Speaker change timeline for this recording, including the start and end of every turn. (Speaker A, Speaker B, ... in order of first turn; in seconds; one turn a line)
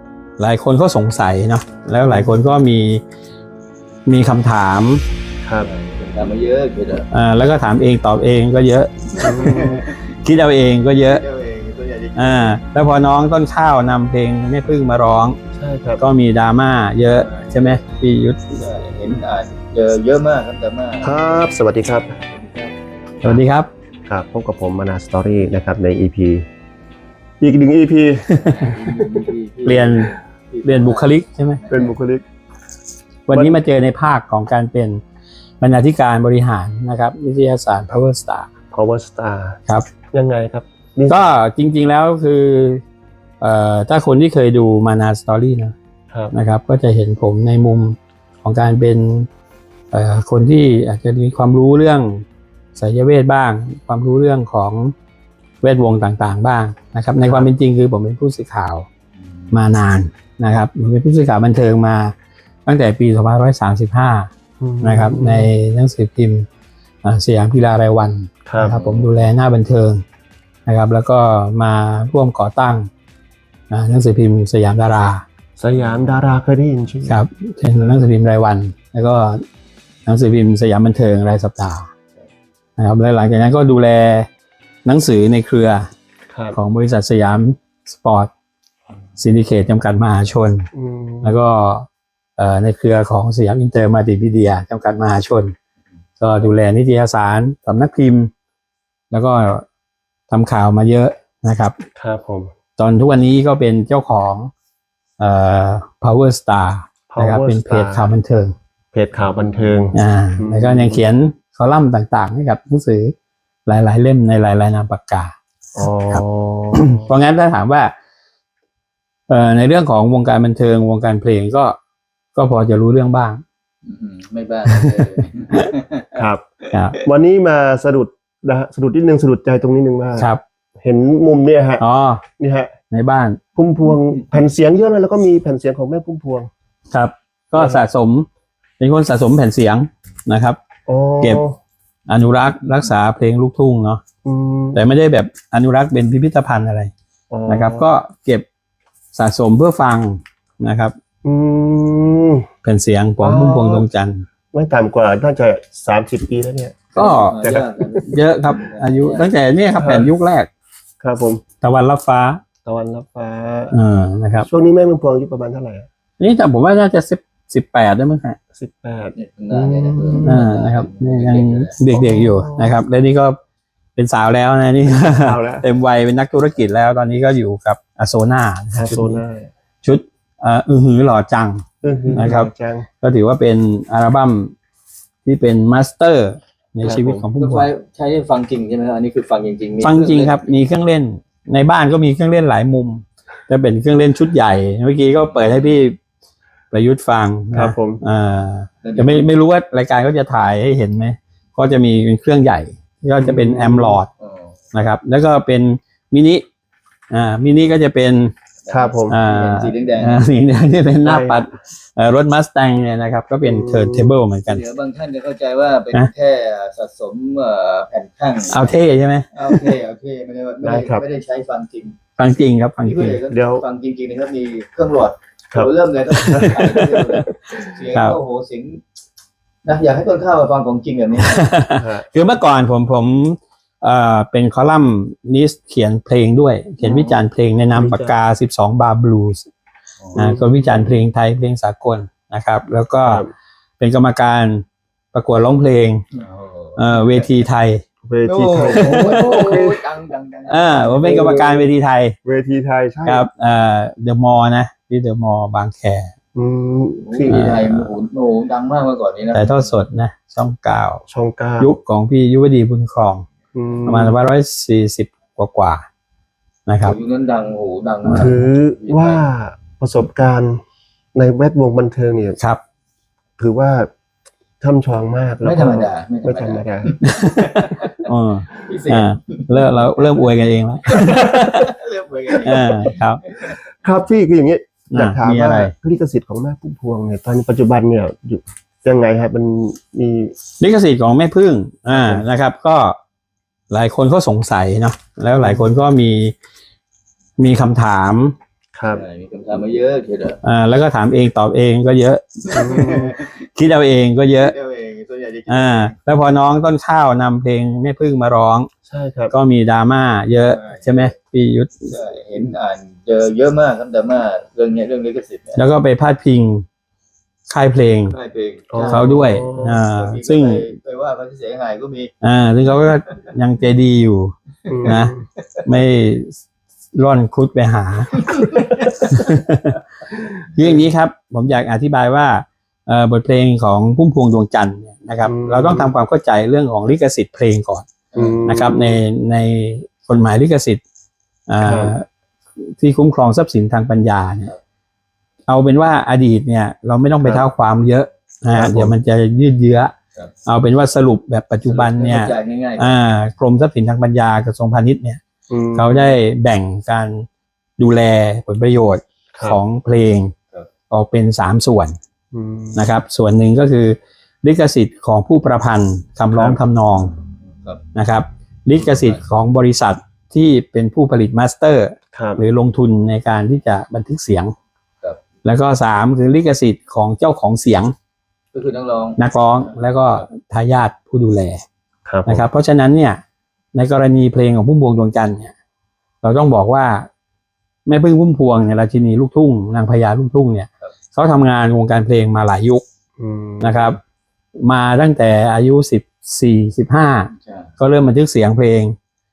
Speaker A: 0.4-3.0
Speaker B: 2.0-2.4
Speaker A: 4.0-5.0
Speaker B: 5.4-5.7
Speaker C: 5.6-7.1
Speaker A: 7.1-9.5
Speaker B: 9.2-9.8
Speaker C: 9.3-10.1
Speaker A: 10.2-11.2
Speaker C: 11.0-12.5
Speaker A: 12.2-15.4
Speaker B: 15.5-16.0
Speaker A: 16.0-18.6
Speaker C: 17.1-17.8
Speaker C: 18.6-21.2
Speaker B: 21.0-22.1
Speaker C: 22.2-22.8
Speaker A: 23.2-23.7
Speaker B: 24.1-26.4
Speaker B: 27.4-29.2
Speaker C: 28.4-31.9
Speaker A: 29.6-30.1
Speaker A: 30.6-31.6
Speaker B: 31.7-32.2
Speaker A: 33.3-35.0
Speaker B: 33.3-33.6
Speaker A: 35.6-38.5
Speaker B: 38.7-39.6
Speaker B: 40.1-41.2
Speaker A: 41.1-42.8
Speaker A: 43.4-45.7
Speaker A: 46.3-49.3
Speaker A: 49.9-52.2
Speaker A: 52.8-54.9
Speaker A: 55.6-58.9
Speaker B: 57.2-57.5
Speaker C: 59.2-59.5
Speaker A: 59.5-62.1
Speaker A: 62.6-64.3
Speaker B: 64.6-65.5
Speaker A: 64.8-66.5
Speaker A: 67.0-70.0
Speaker B: 68.5-68.8
Speaker C: 68.6-69.1
Speaker A: 70.7-72.9
Speaker A: 73.7-75.2
Speaker B: 75.6-77.2
Speaker A: 77.0-79.4
Speaker A: 80.0-81.9
Speaker A: 82.8-84.3
Speaker A: 84.8-85.9
Speaker B: 86.3-86.6
Speaker A: 86.5-88.3
Speaker A: 89.2-90.7
Speaker B: 90.7-91.4
Speaker A: 91.2-95.5
Speaker A: 96.2-98.3
Speaker A: 99.1-99.6
Speaker A: 100.3-101.8
Speaker B: 102.0-102.5
Speaker A: 102.8-104.5
Speaker A: 105.2-108.5
Speaker B: 107.1-108.1
Speaker B: 108.9-111.0
Speaker C: 109.2-109.8
Speaker A: 109.9-113.1
Speaker A: 113.7-115.3
Speaker B: 115.8-117.1
Speaker A: 116.1-117.9
Speaker A: 119.3-121.8
Speaker A: 122.3-123.4
Speaker C: 123.8-126.2
Speaker B: 126.1-126.4
Speaker A: 126.7-127.0
Speaker C: 126.7-127.0
Speaker B: 127.0-131.8
Speaker A: 130.2-130.4
Speaker A: 131.8-132.2
Speaker B: 132.4-132.7
Speaker A: 132.9-133.4
Speaker B: 133.5-136.5
Speaker A: 136.9-138.3
Speaker B: 137.5-137.8
Speaker A: 138.8-140.6
Speaker B: 140.9-141.6
Speaker A: 142.1-144.0
Speaker B: 144.2-144.8
Speaker A: 144.7-146.9
Speaker B: 147.3-147.9
Speaker A: 147.5-148.4
Speaker A: 149.1-150.9
Speaker B: 151.2-152.4
Speaker A: 152.6-154.2
Speaker B: 153.2-153.8
Speaker B: 154.5-157.9
Speaker A: 156.9-157.5
Speaker C: 156.9-159.3
Speaker A: 158.0-160.5
Speaker B: 159.8-160.1
Speaker B: 161.0-161.4
Speaker A: 161.6-162.4
Speaker B: 162.6-163.8
Speaker A: 163.7-164.5
Speaker B: 164.4-165.9
Speaker A: 166.2-168.4
Speaker B: 168.5-170.4
Speaker C: 169.1-171.7
Speaker A: 170.2-173.4
Speaker B: 171.9-172.8
Speaker A: 173.9-179.2
Speaker B: 174.9-175.7
Speaker B: 178.7-179.5
Speaker A: 179.8-182.5
Speaker B: 181.8-182.9
Speaker A: 183.0-184.5
Speaker A: 185.2-187.7
Speaker B: 186.8-187.2
Speaker C: 187.4-190.5
Speaker A: 189.8-196.0
Speaker C: 195.2-195.8
Speaker A: 196.7-204.1
Speaker B: 197.5-198.0
Speaker C: 198.8-199.3
Speaker B: 203.2-204.0
Speaker C: 204.2-204.6
Speaker A: 204.7-206.4
Speaker A: 207.1-208.3
Speaker C: 208.6-210.2
Speaker B: 208.7-209.2
Speaker A: 209.1-214.6
Speaker B: 211.0-211.6
Speaker B: 213.4-214.1
Speaker C: 214.5-218.7
Speaker A: 218.5-219.7
Speaker C: 219.3-222.0
Speaker B: 220.6-221.0
Speaker A: 222.2-223.2
Speaker C: 222.8-228.8
Speaker B: 223.3-223.6
Speaker B: 226.2-226.6
Speaker A: 226.2-227.0
Speaker A: 227.9-228.2
Speaker C: 229.6-231.4
Speaker A: 231.2-239.4
Speaker B: 231.8-232.1
Speaker B: 236.8-238.1
Speaker C: 240.0-240.9
Speaker B: 240.1-240.4
Speaker A: 240.1-243.2
Speaker A: 243.8-246.0
Speaker C: 246.1-247.3
Speaker A: 246.8-247.8
Speaker B: 248.0-249.8
Speaker C: 248.2-251.4
Speaker A: 248.6-249.6
Speaker A: 250.5-252.2
Speaker B: 251.0-251.7
Speaker B: 252.2-253.3
Speaker A: 253.0-256.1
Speaker B: 256.3-257.6
Speaker C: 257.1-259.7
Speaker A: 257.3-257.9
Speaker A: 259.3-261.0
Speaker B: 261.1-261.7
Speaker A: 261.6-263.2
Speaker B: 263.5-264.2
Speaker A: 263.9-265.8
Speaker A: 266.7-267.0
Speaker C: 266.8-269.2
Speaker A: 268.0-268.4
Speaker B: 268.1-270.6
Speaker B: 271.1-272.4
Speaker B: 273.4-273.9
Speaker B: 274.6-276.9
Speaker C: 275.4-280.3
Speaker A: 277.2-277.4
Speaker A: 278.0-281.7
Speaker C: 280.9-283.6
Speaker A: 282.4-283.2
Speaker B: 283.5-290.3
Speaker A: 284.9-285.7
Speaker A: 290.6-293.0
Speaker B: 291.9-292.2
Speaker A: 293.7-296.3
Speaker B: 295.4-295.7
Speaker A: 297.4-298.3
Speaker B: 298.7-299.0
Speaker C: 298.9-300.4
Speaker A: 300.4-304.5
Speaker C: 302.5-303.4
Speaker B: 302.5-303.1
Speaker C: 304.3-305.9
Speaker A: 305.5-308.7
Speaker B: 308.8-309.4
Speaker A: 309.3-311.9
Speaker C: 310.4-311.1
Speaker C: 311.9-315.6
Speaker A: 315.6-316.6
Speaker A: 317.5-318.2
Speaker C: 318.1-322.1
Speaker B: 318.7-319.8
Speaker A: 318.8-320.6
Speaker A: 322.2-324.3
Speaker B: 324.7-325.2
Speaker C: 324.7-324.9
Speaker A: 324.9-325.1
Speaker A: 325.6-326.4
Speaker A: 326.9-328.2
Speaker C: 328.1-329.1
Speaker A: 329.0-329.7
Speaker A: 330.5-337.9
Speaker B: 335.2-335.9
Speaker C: 338.1-338.6
Speaker B: 338.1-339.0
Speaker A: 338.4-340.8
Speaker A: 341.5-342.0
Speaker B: 341.6-341.9
Speaker A: 342.6-344.5
Speaker A: 345.5-349.9
Speaker B: 348.5-348.9
Speaker A: 350.5-355.2
Speaker C: 351.6-353.0
Speaker B: 355.5-356.1
Speaker A: 355.8-357.2
Speaker A: 357.8-360.3
Speaker B: 359.3-359.6
Speaker A: 360.9-361.9
Speaker B: 362.3-362.9
Speaker A: 362.8-367.1
Speaker B: 366.3-366.6
Speaker C: 367.1-367.8
Speaker A: 367.9-374.5
Speaker C: 368.8-369.2
Speaker B: 372.1-372.4
Speaker A: 375.4-377.9
Speaker C: 378.5-380.3
Speaker A: 379.2-381.6
Speaker B: 382.1-382.4
Speaker A: 382.2-383.2
Speaker A: 383.7-385.5
Speaker A: 386.2-387.1
Speaker A: 387.9-392.8
Speaker B: 393.2-394.0
Speaker A: 393.6-394.0
Speaker A: 394.6-398.9
Speaker C: 397.4-397.7